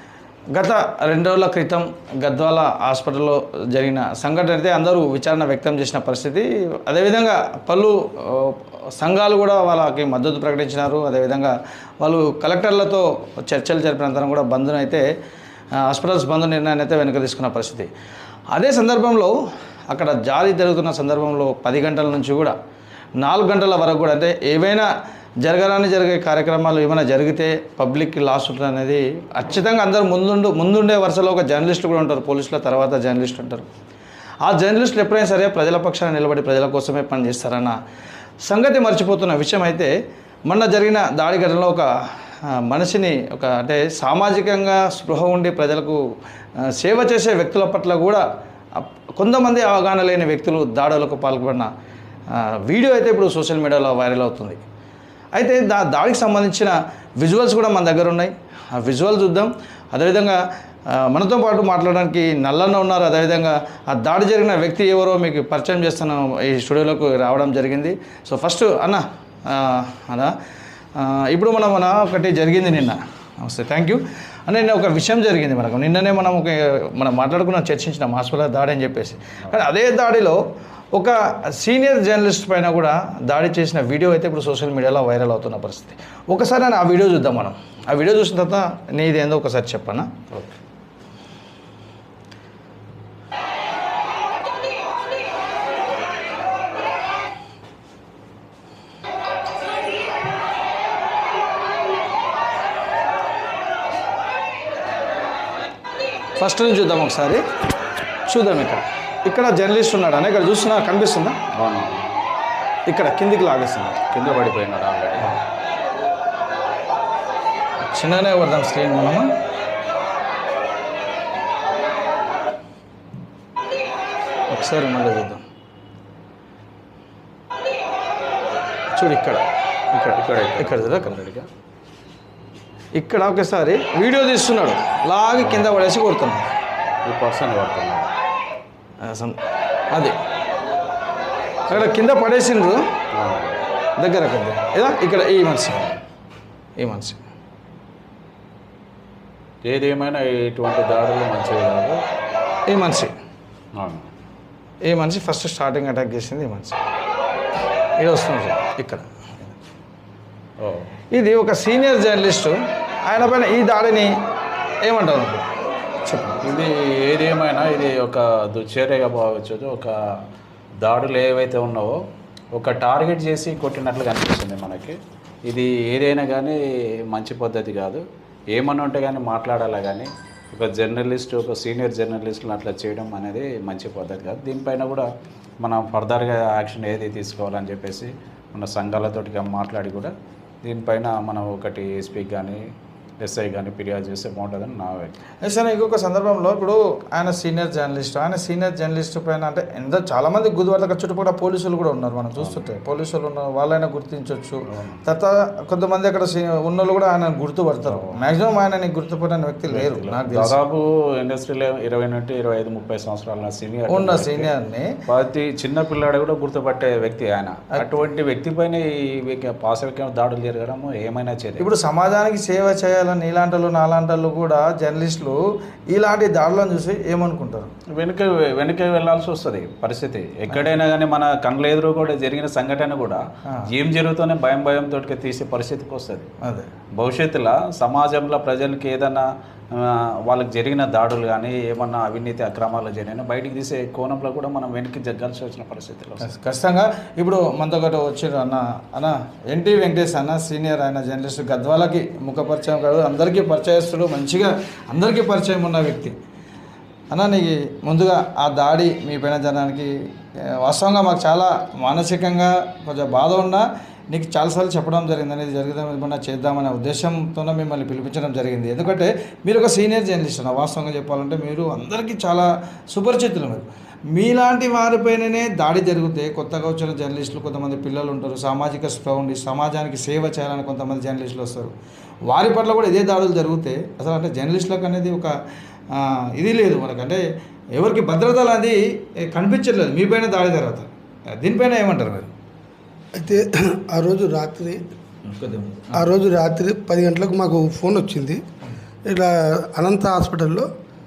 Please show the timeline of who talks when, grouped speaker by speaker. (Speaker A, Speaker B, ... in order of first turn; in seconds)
Speaker A: 0.5-15.0, 15.8-17.9, 18.5-19.4, 19.9-22.6, 23.2-24.9, 25.4-33.7, 34.4-37.8, 38.4-39.9, 40.5-41.9, 42.5-46.0, 46.6-48.2, 48.8-51.7, 52.3-54.6, 55.4-70.3, 71.0-80.4, 80.9-90.5, 106.4-107.4, 108.3-111.4, 112.9-114.1, 117.8-119.3, 124.5-125.4, 128.9-129.4, 130.1-131.2, 132.9-136.5, 139.0-139.4, 139.9-140.2, 141.7-142.8, 144.0-145.9, 146.8-147.2, 152.7-153.1, 154.8-156.8, 158.0-159.5, 161.1-164.1, 164.8-165.5, 166.1-166.4, 195.4-210.6, 213.9-215.0, 221.6-225.4, 225.9-227.7, 236.4-236.7, 246.2-256.1, 257.1-259.9, 260.6-281.7, 282.3-285.3, 285.9-287.2, 287.8-292.3, 295.3-296.0
Speaker B: 111.5-112.1, 114.1-115.4, 129.9-131.5, 135.4-135.7, 137.1-138.1, 143.1-143.6, 149.7-152.0, 153.8-154.1, 160.6-160.9, 166.4-170.0, 170.8-172.0, 172.6-176.6, 177.1-185.1, 185.6-190.1, 190.6-192.6, 193.2-195.2, 202.4-202.7, 204.7-205.0, 207.8-208.2, 209.7-214.5, 215.1-221.7, 228.0-236.3, 237.0-246.2
Speaker C: 293.2-294.8, 295.9-298.4, 299.1-300.7